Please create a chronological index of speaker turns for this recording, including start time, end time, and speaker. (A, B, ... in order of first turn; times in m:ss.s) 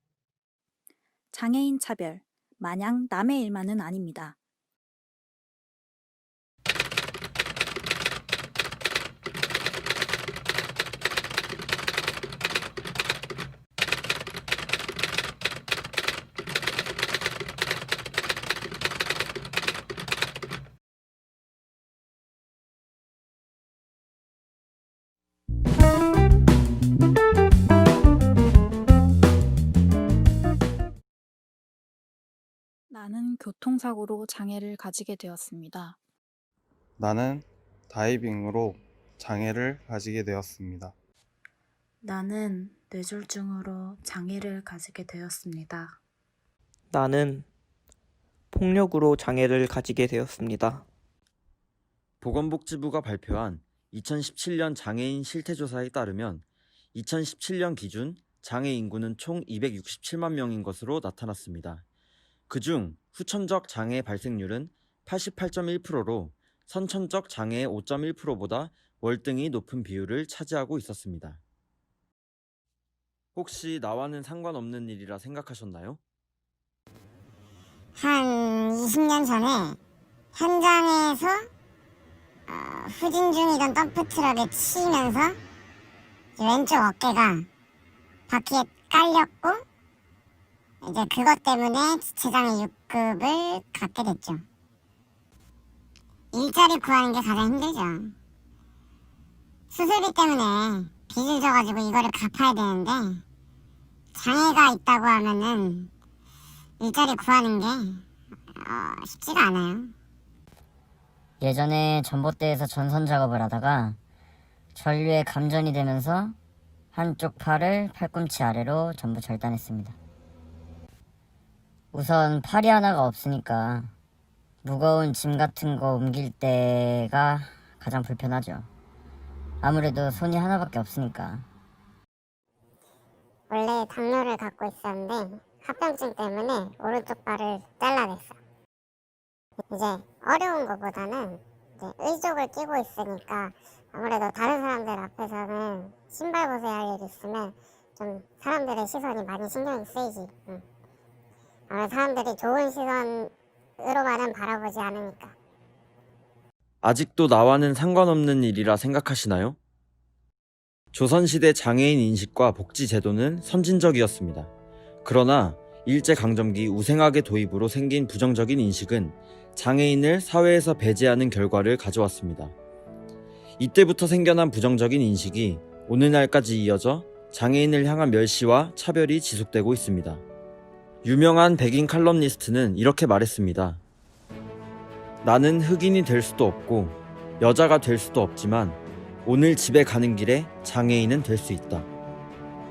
0:01.3-0:04.4 A
0:32.9-0:36.0 A
0:37.0-0:40.9 B
0:42.0-0:45.9 C
0:46.9-0:47.4 D
0:48.5-0:50.8 D
0:52.2-1:01.8 E
1:02.5-1:11.4 E
1:13.3-1:16.0 E
1:18.0-1:19.8 F
1:20.3-1:21.5 F
1:22.5-1:25.4 F
1:26.4-1:27.5 F
1:28.3-1:29.6 F
1:30.8-1:34.4 F
1:36.3-1:38.1 F
1:39.7-1:43.2 F
1:44.1-1:45.9 F
1:46.8-1:48.0 F
1:48.6-1:49.9 F
1:51.4-1:54.0 G
1:54.7-1:56.3 G
1:56.9-1:59.9 G
2:01.9-2:03.9 G
2:04.6-2:08.7 G
2:09.6-2:11.4 G
2:13.5-2:18.4 F
2:19.7-2:30.6 F
2:31.7-2:35.3 F
2:36.8-2:39.6 E
2:40.9-2:44.5 E
2:45.0-2:52.5 E
2:53.6-3:00.2 E
3:01.0-3:03.8 E
3:05.2-3:11.9 E